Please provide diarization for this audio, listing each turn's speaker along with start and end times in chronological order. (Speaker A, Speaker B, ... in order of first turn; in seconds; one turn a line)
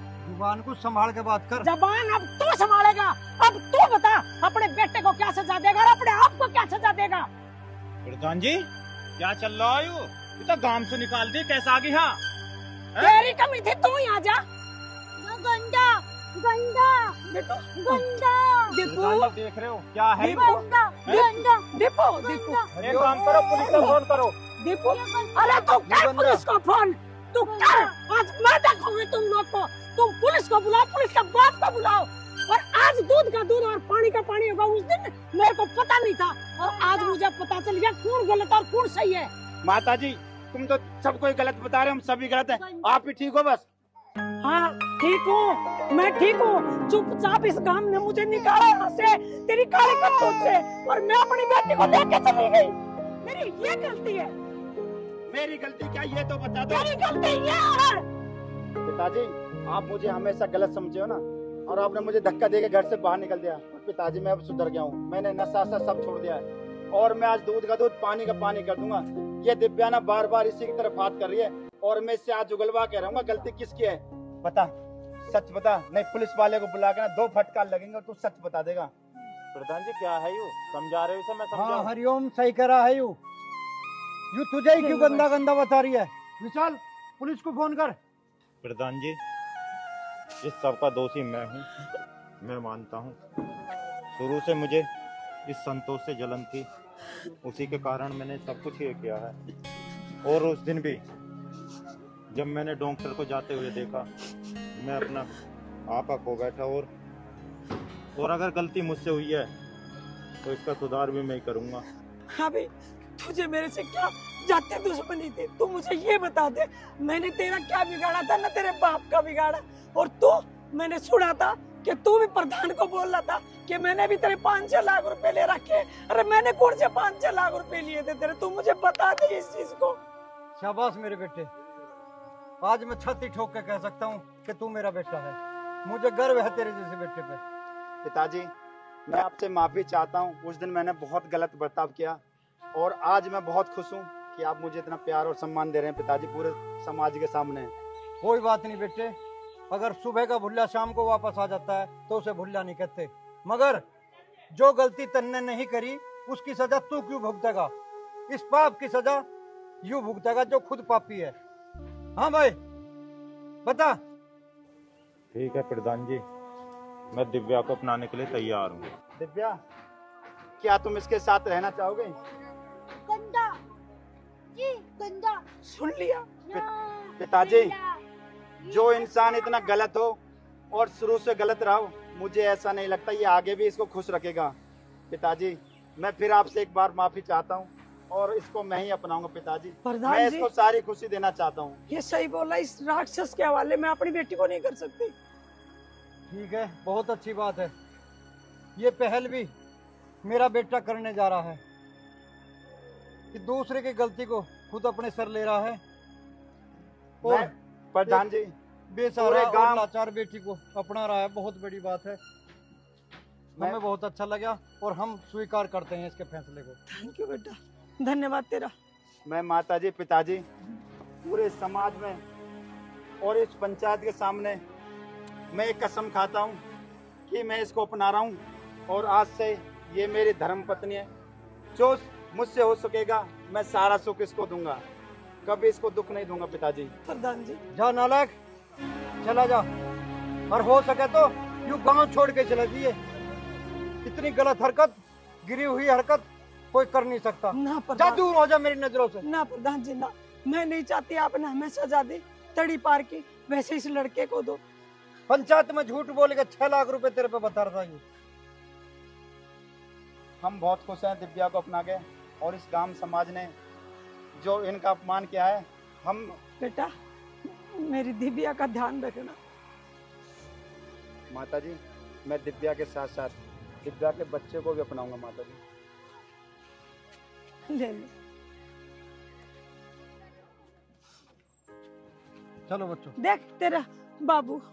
Speaker A: 0.2-1.7
Speaker B: 1.6-7.3
Speaker C: 8.0-8.7
Speaker C: 9.2-12.2
Speaker B: 13.0-14.4
Speaker D: 15.2-17.1
Speaker B: 17.3-18.1
Speaker D: 17.8-18.8
Speaker B: 18.7-19.3
Speaker C: 18.8-20.5
Speaker D: 20.2-22.7
Speaker B: 20.2-23.9
Speaker C: 21.1-21.4
Speaker A: 22.8-23.2
Speaker C: 22.8-24.3
Speaker D: 23.4-23.9
Speaker B: 24.6-39.3
Speaker D: 24.9-25.8
Speaker A: 25.9-26.4
Speaker D: 27.4-27.9
Speaker D: 36.6-37.2
Speaker E: 39.6-43.6
Speaker D: 42.6-42.8
Speaker B: 44.4-54.3
Speaker E: 55.3-57.0
Speaker B: 56.7-58.0
Speaker E: 58.8-74.7
Speaker E: 75.2-78.9
Speaker C: 79.5-81.9
Speaker A: 81.5-83.2
Speaker A: 84.3-88.0
Speaker B: 84.8-85.3
Speaker C: 88.6-89.2
Speaker C: 90.4-91.7
Speaker C: 92.4-93.2
Speaker C: 94.1-94.9
Speaker C: 95.5-96.7
Speaker C: 97.4-99.3
Speaker C: 100.2-101.0
Speaker C: 102.3-104.1
Speaker C: 104.8-105.3
Speaker C: 105.9-106.9
Speaker C: 108.2-109.5
Speaker C: 110.4-111.8
Speaker B: 112.3-130.0
Speaker A: 130.6-131.5
Speaker A: 132.6-137.4
Speaker E: 138.0-138.5
Speaker E: 139.1-142.2
Speaker E: 142.7-147.7
Speaker A: 148.2-149.1
Speaker A: 149.7-153.8
Speaker A: 154.5-157.7
Speaker A: 158.3-159.2
Speaker A: 159.8-161.3
Speaker A: 162.2-162.6
Speaker A: 163.6-164.0
Speaker C: 165.3-166.2
Speaker C: 167.1-168.9
Speaker E: 169.2-169.6
Speaker E: 170.6-172.2
Speaker D: 173.1-173.5
Speaker D: 174.5-175.4
Speaker B: 175.6-176.3
Speaker D: 176.4-178.0
Speaker E: 176.5-177.7
Speaker D: 178.6-179.7
Speaker E: 178.7-180.2
Speaker E: 180.7-184.6
Speaker E: 185.1-191.8
Speaker B: 189.8-190.5
Speaker B: 191.9-195.1
Speaker A: 196.3-197.7
Speaker A: 198.8-199.5
Speaker A: 200.2-201.6
Speaker A: 203.3-205.8
Speaker A: 207.2-207.5
Speaker E: 207.2-208.5
Speaker A: 208.9-212.2
Speaker E: 209.2-209.8
Speaker A: 213.6-216.8
Speaker B: 216.9-218.7
Speaker E: 219.2-220.4
Speaker E: 221.2-222.2
Speaker E: 223.2-224.6
Speaker E: 225.5-226.6
Speaker E: 227.3-231.1
Speaker E: 231.7-234.8
Speaker E: 235.4-236.9
Speaker B: 237.1-237.6
Speaker A: 237.7-238.3
Speaker A: 239.2-239.7
Speaker A: 240.5-243.0
Speaker A: 244.0-249.2
Speaker B: 247.5-248.2
Speaker B: 249.2-254.6
Speaker A: 255.3-258.0
Speaker E: 260.4-263.5
Speaker E: 264.4-266.4
Speaker B: 266.6-266.9
Speaker B: 267.4-269.4
Speaker E: 271.3-275.6
Speaker B: 277.7-278.1
Speaker A: 282.7-283.1
Speaker B: 283.2-284.6